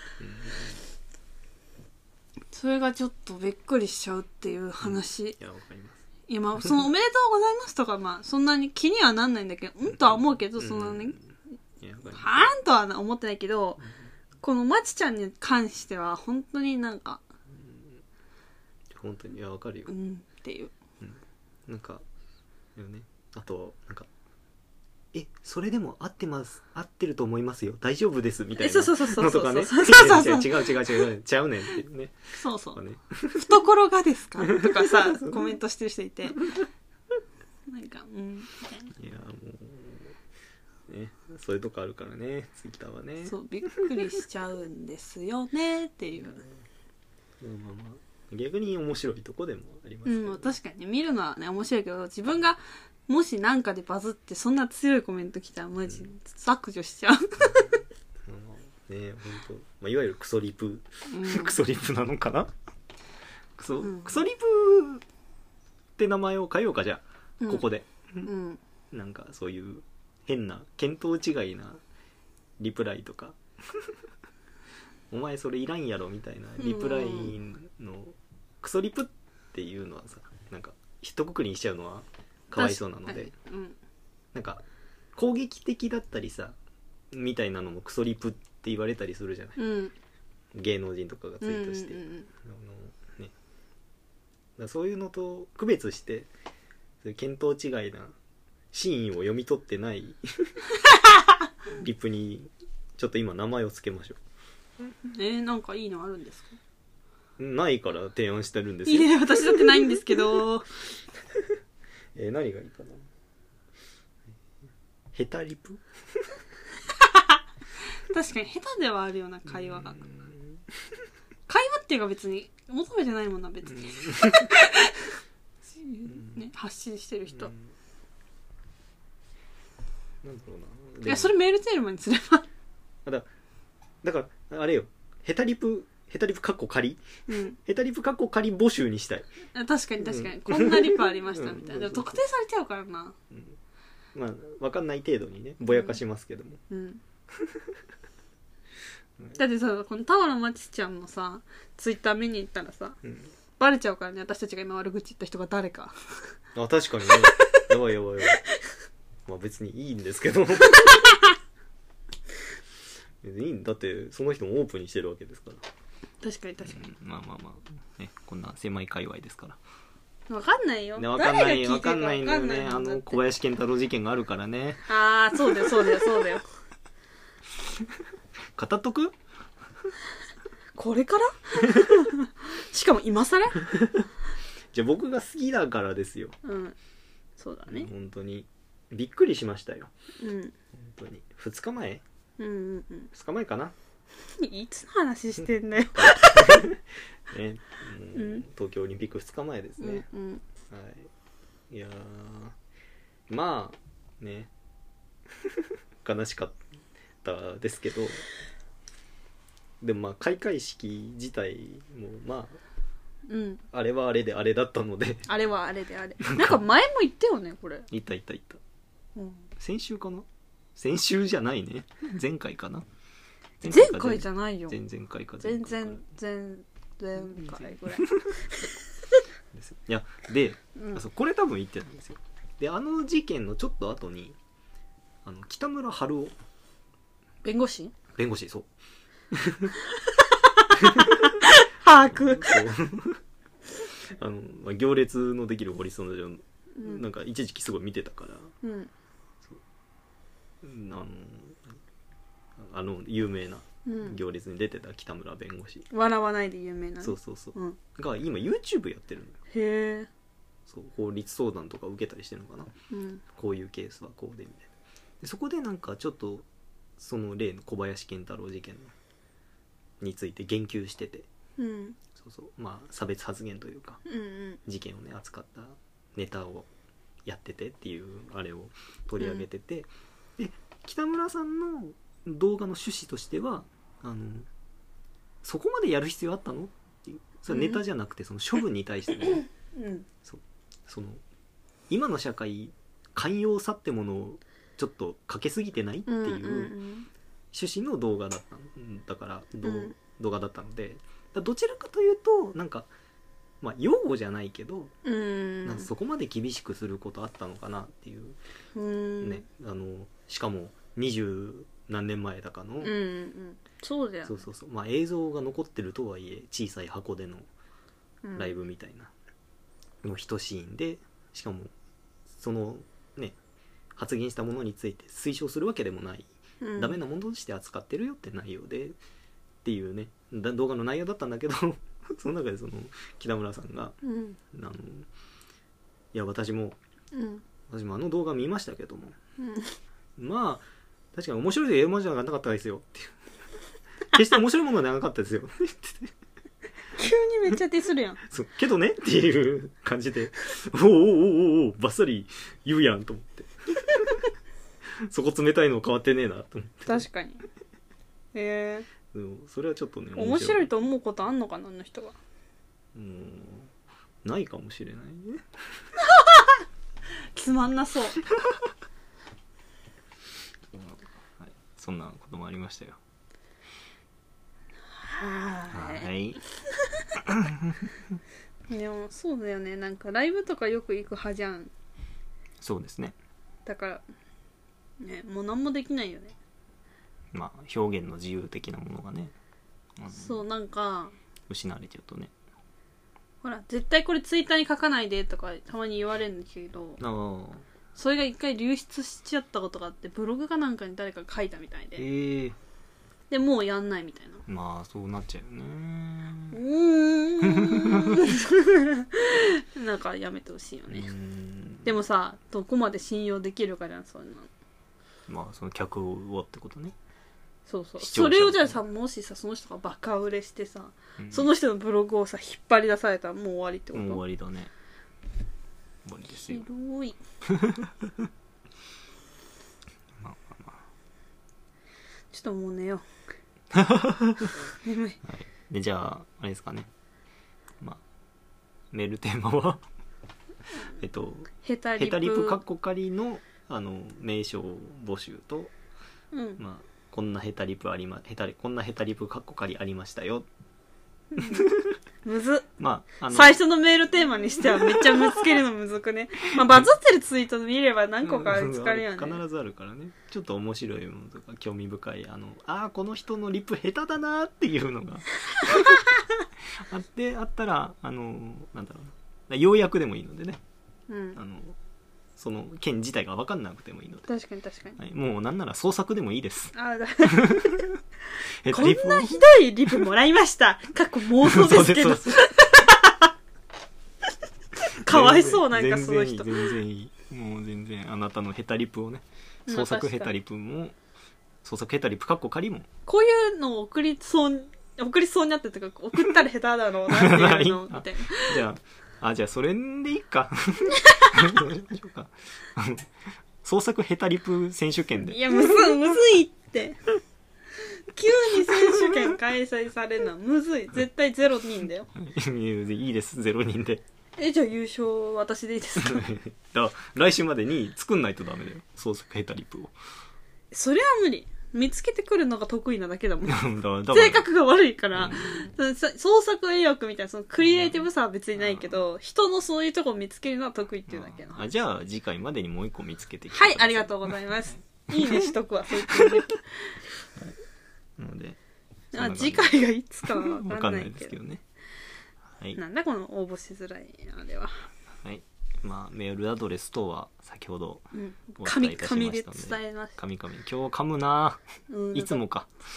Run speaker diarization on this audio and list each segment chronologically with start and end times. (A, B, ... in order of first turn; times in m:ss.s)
0:00.2-0:00.8 A
0:02.5-0:05.4 B
0:04.8-0:06.0 A
0:06.3-0:11.2 B
0:10.0-0:12.5 A
0:12.1-0:13.8 B
0:14.4-0:17.2 B
0:17.5-0:18.0 A
0:18.9-0:19.9 A
0:19.9-0:20.7 B
0:21.0-0:22.0 A
0:22.8-0:24.1 A
0:25.1-0:32.2 A
0:28.6-0:31.1 B
0:32.3-0:32.8 B
0:32.7-0:33.6 A
0:33.3-0:36.5 B
0:34.4-0:35.5 A
0:37.7-0:38.9 B
0:38.9-0:40.1 A
0:40.9-0:44.1 A
0:43.2-0:46.4 B
0:47.4-0:50.5 A
0:50.0-0:57.8 B
0:57.4-0:57.7 A
0:58.2-1:02.5 A
1:01.1-1:01.6 B
1:03.6-1:05.0 A
1:03.8-1:04.1 B
1:06.0-1:08.3 A
1:07.4-1:07.6 B
1:08.2-1:08.6 B
1:08.9-1:11.8 A
1:12.6-1:13.9 A
1:15.1-1:23.3 A
1:16.6-1:17.3 B
1:22.6-1:23.8 B
1:24.3-1:24.6 A
1:25.1-1:26.6 A
1:27.1-1:29.6 A
1:29.6-1:29.9 B
1:30.5-1:33.3 A
1:31.4-1:32.3 B
1:34.6-1:36.3 A
1:37.0-1:38.1 A
1:38.7-1:40.6 A
1:41.7-1:44.2 A
1:45.0-1:46.6 B
1:47.4-1:50.4 A
1:48.8-1:50.7 B
1:52.1-1:53.0 A
1:55.1-1:56.2 A
1:57.1-1:57.3 B
1:58.0-2:00.0 B
1:59.5-2:00.6 A
2:01.5-2:05.1 B
2:03.7-2:04.5 A
2:05.7-2:07.5 B
2:06.1-2:06.4 A
2:07.4-2:07.6 A
2:10.2-2:11.4 A
2:11.0-2:12.5 B
2:14.0-2:17.0 A
2:17.3-2:17.6 B
2:17.6-2:19.3 A
2:19.5-2:23.2 B
2:20.0-2:22.2 A
2:23.3-2:23.6 A
2:24.1-2:26.6 A
2:25.7-2:26.0 B
2:26.7-2:27.0 B
2:27.3-2:27.7 A
2:29.3-2:33.0 B
2:33.0-2:33.3 A
2:33.6-2:35.9 B
2:36.5-2:38.4 A
2:39.2-2:41.1 A
2:40.8-2:41.1 B
2:43.2-2:45.6 A
2:46.2-2:46.8 B
2:46.6-2:49.6 A
2:50.3-2:53.2 B
2:51.0-2:56.1 A
2:54.9-2:56.4 B
2:58.6-2:59.1 A
3:00.8-3:03.7 B
3:01.7-3:02.0 A
3:03.6-3:04.1 A
3:04.7-3:06.4 A
3:06.4-3:06.7 B
3:07.4-3:07.9 B
3:07.7-3:09.9 A
3:10.2-3:10.5 B
3:10.7-3:12.0 A
3:12.4-3:13.1 B
3:13.1-3:13.7 A
3:14.4-3:16.7 B
3:15.9-3:20.1 A
3:18.1-3:18.4 B
3:19.8-3:20.4 B
3:20.7-3:21.1 A
3:21.7-3:22.6 A
3:23.3-3:24.5 A
3:25.4-3:26.6 A
3:27.2-3:28.2 A
3:29.8-3:32.6 A
3:33.3-3:33.6 B
3:33.7-3:35.3 A
3:35.3-3:37.9 B
3:36.2-3:36.6 A
3:37.9-3:38.6 A
3:39.2-3:39.5 B
3:39.6-3:42.8 A
3:43.6-3:46.0 A
3:43.6-3:44.8 B
3:45.4-3:48.7 B
3:47.3-3:48.3 A
3:49.5-3:54.4 A
3:50.8-3:51.0 B
3:55.2-3:56.3 A
3:57.4-3:57.9 B
3:58.1-3:58.7 A
3:59.3-3:59.8 A
4:00.1-4:02.7 B
4:00.7-4:01.3 A
4:02.0-4:03.2 A
4:04.0-4:08.5 A
4:06.8-4:07.0 B
4:08.6-4:08.9 B
4:10.6-4:11.8 A
4:12.6-4:15.8 A
4:13.8-4:14.2 B
4:15.9-4:17.8 B
4:17.0-4:19.4 A
4:19.5-4:20.1 B
4:20.7-4:22.7 A
4:22.9-4:23.2 B
4:23.3-4:24.7 A
4:25.2-4:26.4 A
4:27.0-4:28.9 A
4:30.0-4:31.3 A
4:31.6-4:32.0 B
4:32.1-4:34.0 A
4:34.0-4:34.6 B
4:34.6-4:36.7 A
4:37.2-4:44.5 A
4:39.2-4:39.4 B
4:45.4-4:49.4 A
4:47.5-4:47.8 B
4:49.7-4:50.1 B
4:50.2-4:51.2 A
4:51.9-4:56.7 A
4:56.1-4:57.1 B
4:57.5-5:02.9 A
4:59.6-4:59.9 B
5:03.6-5:04.9 A
5:05.0-5:05.9 B
5:05.6-5:08.4 A
5:08.7-5:09.4 B
5:09.2-5:12.9 A
5:12.8-5:14.4 B
5:14.2-5:17.5 A
5:18.2-5:18.5 B
5:18.4-5:19.1 A
5:20.0-5:21.7 A
5:22.3-5:23.4 A
5:24.0-5:29.0 A
5:26.6-5:27.0 B
5:29.6-5:34.0 A
5:34.0-5:34.4 B
5:34.5-5:35.1 A
5:36.1-5:36.8 A
5:37.1-5:37.4 B
5:37.7-5:39.2 A
5:39.4-5:39.8 B
5:40.2-5:43.2 A
5:44.1-5:46.1 A
5:46.9-5:48.2 B
5:48.2-5:54.2 A
5:55.0-5:57.0 A
5:56.9-5:57.4 B
5:58.3-5:58.9 B
5:59.1-6:00.7 A
6:00.1-6:02.2 B
6:02.9-6:03.7 A
6:04.2-6:05.4 A
6:06.1-6:06.5 B
6:07.3-6:08.2 B
6:10.7-6:13.0 A
6:14.9-6:16.1 B
6:15.7-6:16.4 A
6:17.2-6:18.2 A
6:18.7-6:21.7 B
6:22.6-6:23.2 A
6:23.6-6:24.0 B
6:25.0-6:26.3 B
6:27.3-6:29.3 A
6:30.0-6:30.4 A
6:30.1-6:31.1 B
6:31.5-6:32.3 A
6:33.4-6:37.0 B
6:37.0-6:37.7 A
6:38.0-6:42.0 B
6:42.0-6:42.6 A
6:43.3-6:44.4 B
6:44.5-6:46.6 A
6:46.5-6:51.1 B
6:47.4-6:48.3 A
6:50.9-6:51.9 A
6:51.8-6:54.5 B
6:55.3-6:56.9 A
6:57.7-7:04.2 B
6:58.0-6:58.8 A
7:01.2-7:01.5 A
7:03.9-7:04.7 A
7:06.0-7:06.6 A
7:06.5-7:07.2 B
7:07.5-7:08.3 A
7:10.2-7:10.8 A
7:12.3-7:13.0 B
7:13.7-7:14.6 A
7:14.8-7:15.2 B
7:15.2-7:16.9 A
7:18.9-7:19.8 A
7:21.0-7:25.7 A
7:21.6-7:22.6 B
7:26.3-7:26.6 B
7:26.6-7:30.5 A
7:31.3-7:31.7 B
7:31.4-7:32.0 A
7:32.2-7:32.6 B
7:32.8-7:33.6 A
7:33.3-7:39.4 B
7:34.6-7:35.5 A
7:38.2-7:46.1 A
7:45.7-7:46.0 B
7:46.8-7:50.6 A
7:51.1-7:51.4 B
7:51.4-7:51.8 A
7:52.4-7:54.3 A
7:54.3-7:55.0 B
7:55.0-7:58.0 A
7:56.7-7:57.8 B
7:58.6-8:00.0 A
7:58.7-8:03.3 B
8:01.4-8:02.4 A
8:04.9-8:06.7 B
8:05.0-8:11.0 A
8:09.7-8:10.3 B
8:11.6-8:12.9 A
8:13.0-8:18.6 B
8:17.1-8:23.1 A
8:21.1-8:21.3 B
8:23.6-8:26.0 A
8:25.2-8:27.0 B
8:28.1-8:32.1 B
8:28.7-8:29.3 A
8:32.1-8:34.0 A
8:34.4-8:36.3 B
8:36.0-8:39.9 A
8:40.7-8:51.6 B
8:43.5-8:44.4 A
8:45.1-8:45.7 A
8:47.6-8:49.0 A
8:51.1-8:56.5 A
8:53.5-8:57.0 B
8:58.2-8:58.6 A
8:59.1-9:01.3 B
8:59.1-9:01.6 A
9:02.7-9:04.8 B
9:05.2-9:08.1 A
9:08.1-9:10.1 B
9:08.6-9:11.6 A
9:11.9-9:12.4 B
9:12.1-9:12.7 A